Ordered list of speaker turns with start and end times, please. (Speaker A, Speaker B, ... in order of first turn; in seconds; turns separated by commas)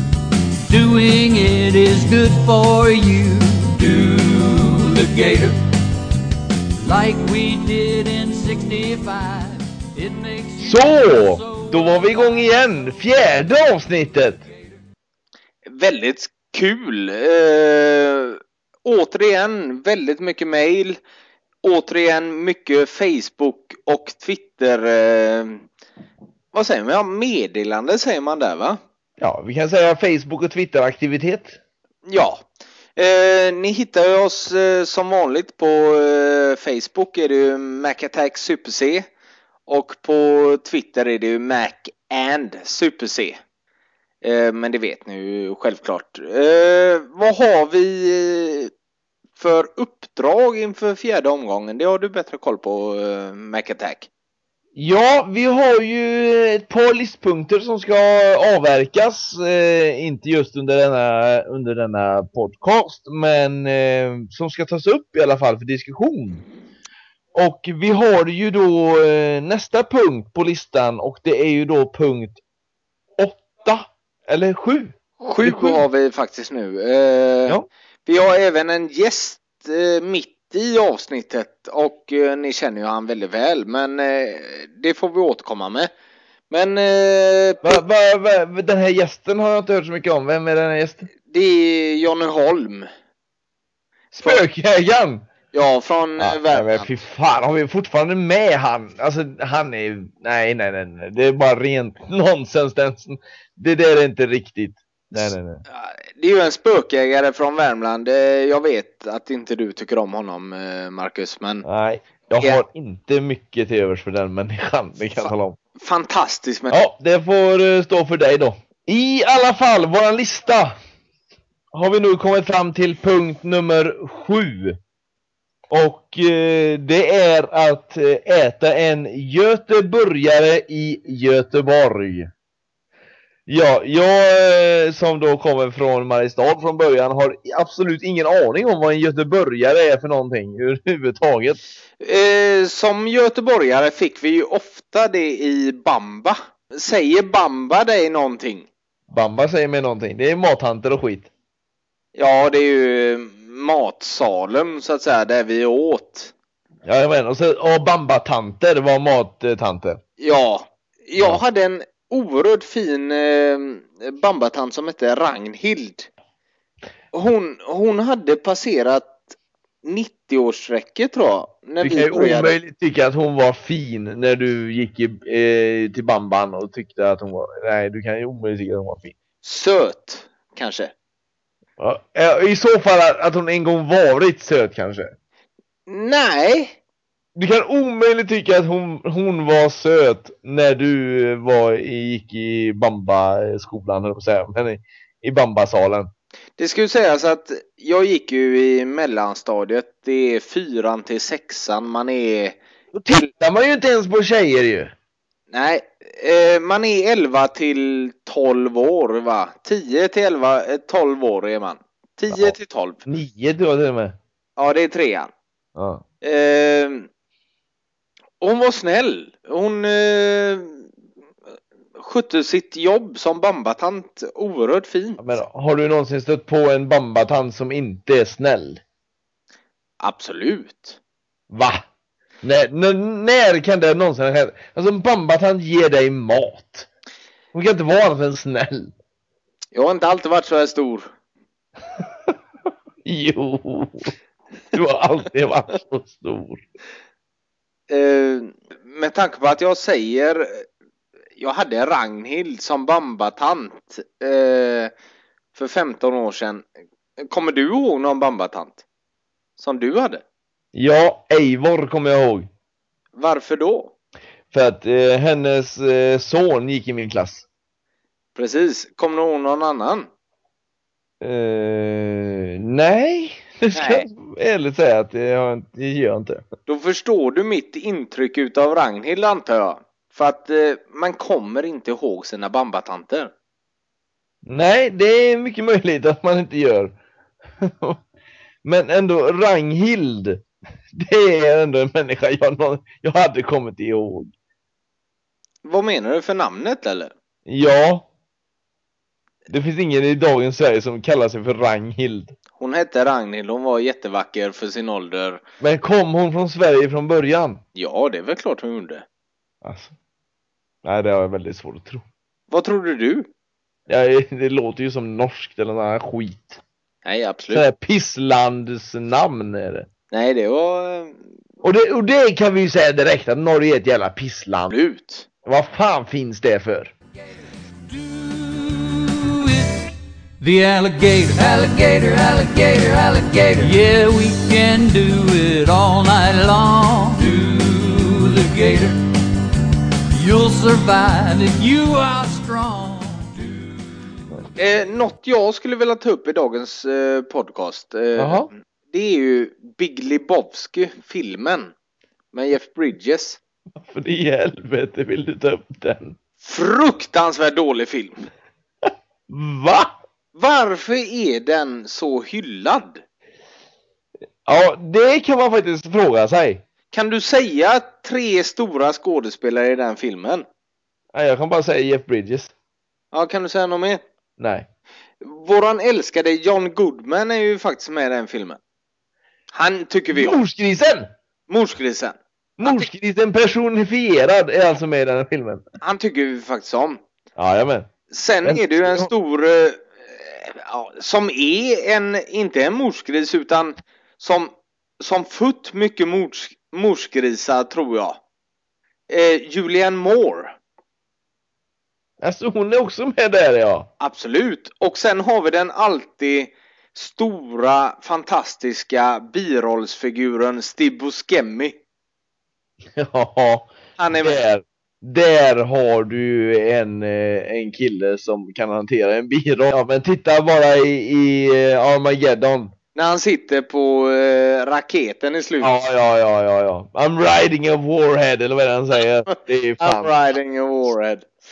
Speaker A: 0.7-5.5, Speaker A: 6.8-12.0, Speaker B: 10.6-14.4, Speaker C: 15.7-21.0, Speaker C: 21.6-25.7, Speaker C: 26.5-28.8, Speaker B: 29.2-31.6, Speaker C: 32.1-32.5, Speaker C: 33.0-39.1, Speaker C: 39.7-43.4, Speaker C: 44.2-48.7, Speaker C: 49.4-54.1, Speaker B: 54.8-66.4, Speaker B: 67.3-72.4, Speaker B: 73.2-75.8, Speaker C: 75.2-85.9, Speaker C: 86.5-87.8, Speaker B: 87.6-91.1, Speaker C: 91.3-92.9, Speaker B: 94.1-95.2, Speaker C: 95.5-96.9, Speaker B: 96.2-105.6, Speaker C: 105.7-111.7, Speaker B: 111.6-115.6, Speaker C: 115.2-116.8, Speaker B: 116.7-120.8, Speaker B: 121.7-124.8, Speaker B: 125.7-132.3, Speaker B: 133.5-141.6, Speaker C: 142.0-148.7, Speaker B: 149.1-151.3, Speaker C: 152.2-156.3, Speaker B: 156.9-160.0, Speaker C: 160.2-166.1, Speaker C: 167.1-172.6, Speaker B: 171.8-179.2, Speaker C: 179.4-180.9, Speaker B: 181.8-185.1, Speaker C: 185.9-186.8, Speaker B: 187.4-196.1, Speaker C: 196.6-203.3, Speaker B: 202.9-204.9, Speaker C: 205.5-213.0, Speaker B: 213.1-214.2, Speaker C: 214.6-215.3, Speaker B: 215.8-216.0, Speaker C: 216.2-217.1, Speaker C: 218.4-220.9, Speaker C: 222.0-225.2, Speaker B: 225.2-228.8, Speaker C: 230.0-231.0, Speaker B: 231.5-231.8, Speaker B: 232.4-236.9, Speaker B: 237.5-238.9, Speaker C: 239.7-241.1, Speaker B: 243.1-244.1, Speaker B: 244.7-246.6, Speaker C: 247.9-250.7, Speaker C: 251.4-254.9, Speaker C: 255.5-256.7, Speaker C: 257.2-258.8, Speaker C: 259.6-260.2, Speaker B: 260.7-262.5, Speaker C: 263.1-263.9, Speaker B: 264.5-267.5, Speaker C: 268.4-270.1, Speaker B: 271.2-276.5, Speaker C: 273.7-274.1, Speaker C: 276.7-283.3, Speaker B: 284.4-286.9, Speaker B: 287.6-288.0, Speaker B: 288.6-294.3, Speaker C: 295.6-297.1, Speaker B: 297.5-298.1, Speaker B: 299.5-302.4, Speaker C: 302.6-305.4, Speaker B: 305.6-307.6, Speaker C: 307.8-309.1, Speaker B: 309.6-309.9, Speaker B: 310.8-312.1, Speaker C: 312.5-313.3, Speaker B: 313.9-316.6, Speaker C: 317.1-317.6, Speaker B: 317.5-319.9, Speaker C: 320.1-321.2, Speaker B: 321.6-324.8, Speaker C: 324.7-325.3, Speaker B: 325.4-326.9, Speaker A: 327.9-339.0, Speaker A: 340.1-343.5, Speaker C: 344.6-351.7, Speaker B: 348.2-348.5, Speaker C: 352.3-353.4, Speaker B: 353.8-356.2, Speaker C: 356.4-358.2, Speaker B: 358.9-360.0, Speaker C: 360.4-363.0, Speaker B: 364.4-366.6, Speaker C: 366.9-370.5, Speaker B: 371.1-372.5, Speaker C: 373.1-374.0, Speaker B: 374.4-374.7, Speaker C: 375.2-378.6, Speaker C: 379.5-380.4, Speaker B: 380.1-381.1, Speaker C: 381.5-382.9, Speaker B: 382.6-385.6, Speaker C: 385.8-387.0, Speaker B: 387.4-387.9, Speaker C: 388.1-398.2, Speaker B: 388.4-389.1, Speaker C: 399.1-400.6, Speaker B: 402.2-403.9, Speaker C: 404.0-411.8, Speaker B: 412.9-422.7, Speaker C: 414.0-414.4, Speaker C: 422.9-425.7, Speaker B: 425.6-430.1, Speaker C: 429.8-431.3